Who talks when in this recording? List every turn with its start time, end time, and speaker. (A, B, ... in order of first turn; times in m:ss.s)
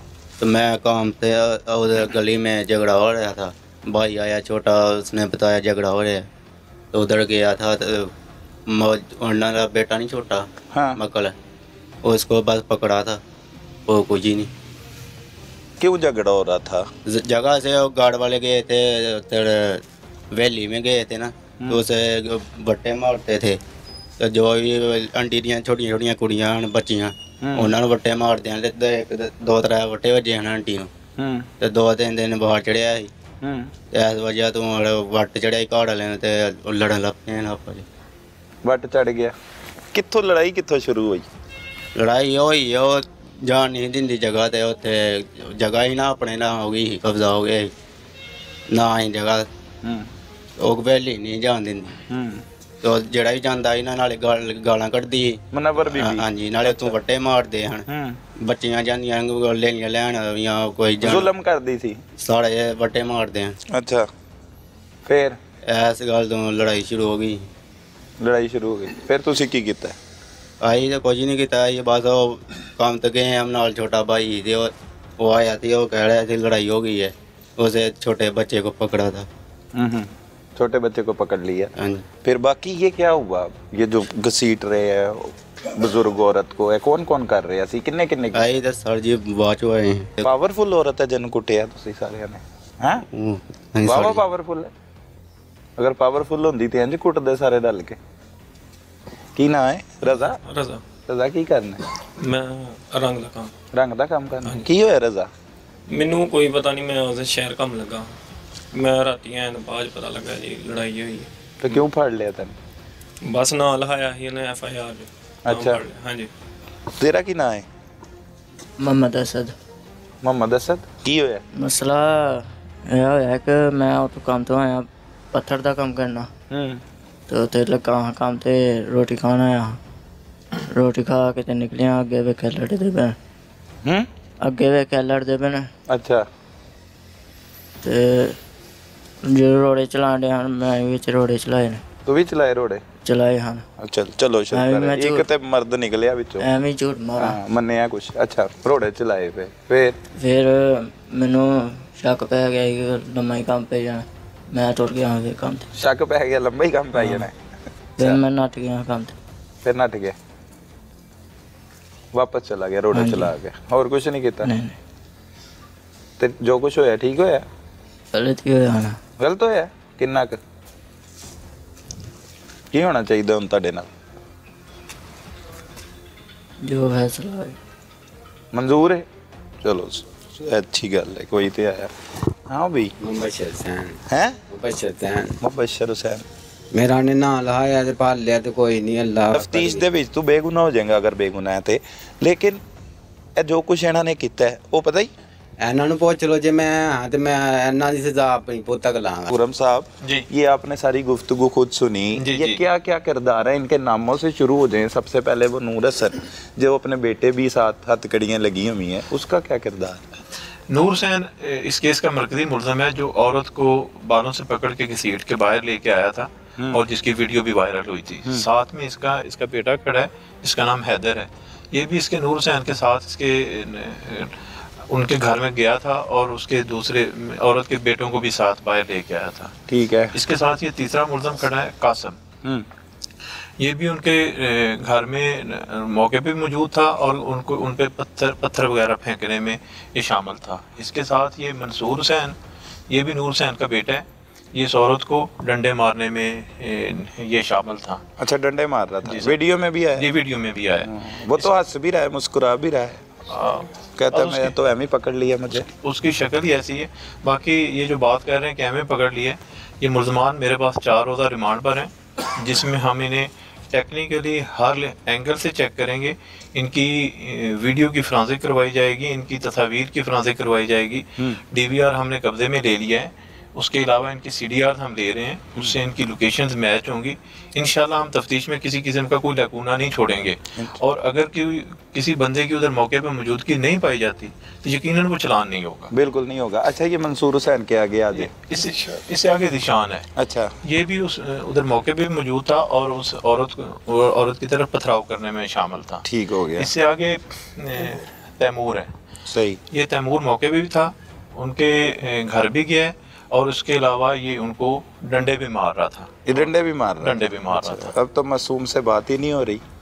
0:00.4-0:06.3 A
0:06.9-0:08.1 A
0:08.7-0:11.3 A
0:10.7-0:11.0 B
0:12.0-0:13.2 A
0:13.9-0:14.5 A
0:15.8-0:16.8 B
0:17.1-0:19.8 A
0:20.3-0:23.6 A
0:24.2-0:30.9 A
0:27.4-0:27.7 B
0:31.2-0:31.5 B
0:31.6-0:33.1 A
0:33.4-0:33.7 B
0:33.9-0:37.8 A
0:38.6-0:39.3 B
0:39.9-0:41.3 B
0:42.0-0:47.7 A
0:48.7-0:49.5 A
0:49.8-0:50.1 B
0:50.6-0:52.0 A
0:52.1-0:52.4 B
0:52.8-0:57.9 A
0:55.5-0:57.0 B
0:57.9-0:58.2 B
0:58.4-1:01.3 A
1:01.0-1:02.0 B
1:02.2-1:03.6 A
1:03.7-1:04.1 B
1:05.1-1:05.4 B
1:05.7-1:07.4 A
1:08.2-1:10.0 B
1:10.6-1:19.3 A
1:19.7-1:21.7 B
1:21.8-1:22.0 A
1:22.2-1:28.5 B
1:28.3-1:30.3 A
1:30.2-1:33.0 B
1:33.1-1:34.2 A
1:33.8-1:34.7 B
1:35.8-1:38.0 B
1:39.4-1:40.4 B
1:40.2-1:40.8 C
1:41.1-1:41.8 B
1:42.2-1:43.5 C
1:43.7-1:45.3 B
1:45.9-1:48.2 C
1:48.7-1:51.3 C
1:51.6-1:52.6 B
1:53.2-1:56.3 C
1:55.4-1:55.8 B
1:57.0-1:57.6 B
1:58.8-1:59.5 D
2:00.2-2:01.4 B
2:01.6-2:06.3 D
2:06.5-2:06.8 B
2:07.3-2:09.8 D
2:10.7-2:13.2 D
2:14.4-2:15.7 D
2:15.9-2:16.2 B
2:17.8-2:18.4 D
2:19.2-2:21.8 D
2:22.1-2:22.8 B
2:23.0-2:23.6 D
2:23.8-2:26.4 B
2:24.5-2:25.2 D
2:26.4-2:27.4 D
2:27.2-2:30.0 B
2:30.2-2:35.7 D
2:35.8-2:37.3 B
2:37.0-2:37.3 D
2:38.0-2:39.2 D
2:39.6-2:40.2 B
2:42.1-2:44.5 B
2:42.9-2:43.3 D
2:44.4-2:44.8 D
2:46.2-2:47.5 B
2:48.1-2:49.0 D
2:49.2-2:50.4 B
2:52.7-2:53.9 B
2:56.6-2:57.6 D
2:58.5-2:59.0 B
2:59.6-3:01.9 B
3:02.5-3:02.9 B
3:03.0-3:05.4 E
3:04.1-3:04.4 B
3:05.4-3:06.2 B
3:06.7-3:09.8 E
3:09.3-3:12.6 B
3:13.4-3:15.1 B
3:15.6-3:19.3 E
3:19.3-3:30.0 B
3:22.2-3:22.6 F
3:30.7-3:44.4 F
3:44.9-3:49.5 F
3:49.7-3:50.2 B
3:50.1-3:52.2 F
3:53.6-4:02.4 F
4:02.9-4:08.0 F
4:08.2-4:10.1 B
4:09.0-4:09.4 F
4:10.0-4:11.5 F
4:10.8-4:13.0 B
4:13.3-4:14.5 F
4:14.0-4:15.7 B
4:15.7-4:45.9 F
4:45.9-4:48.3 B
4:48.1-4:50.1 F
4:50.2-4:50.5 B
4:50.7-4:58.9 F
4:56.0-4:56.7 B
4:59.3-4:59.6 B
4:59.7-5:07.9 F
5:06.3-5:09.6 B